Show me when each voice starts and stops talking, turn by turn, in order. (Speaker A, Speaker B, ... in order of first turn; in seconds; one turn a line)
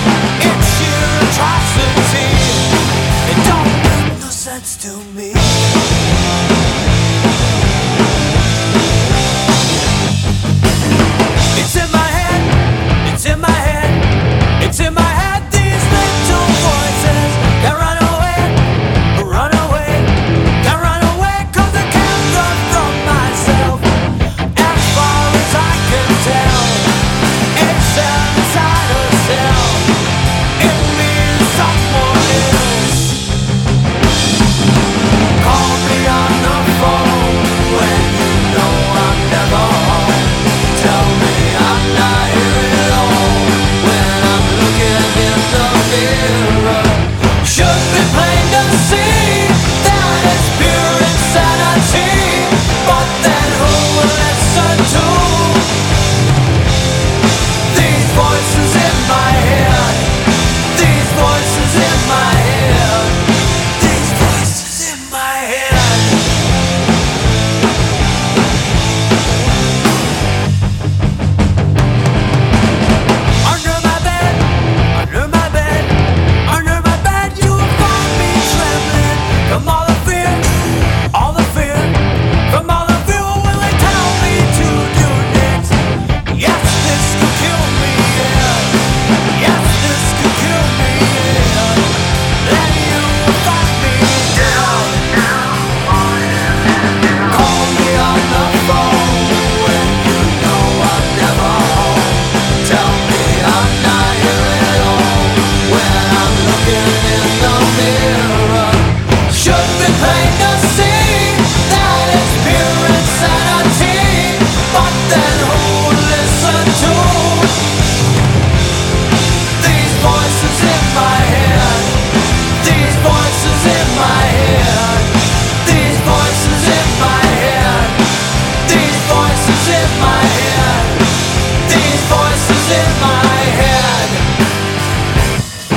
Speaker A: 0.4-5.8
Speaker A: 11.5-30.0
Speaker A: 30.6-33.2
Speaker A: 35.4-55.8
Speaker A: 57.6-66.4
Speaker A: 73.4-117.7
Speaker A: 119.5-134.2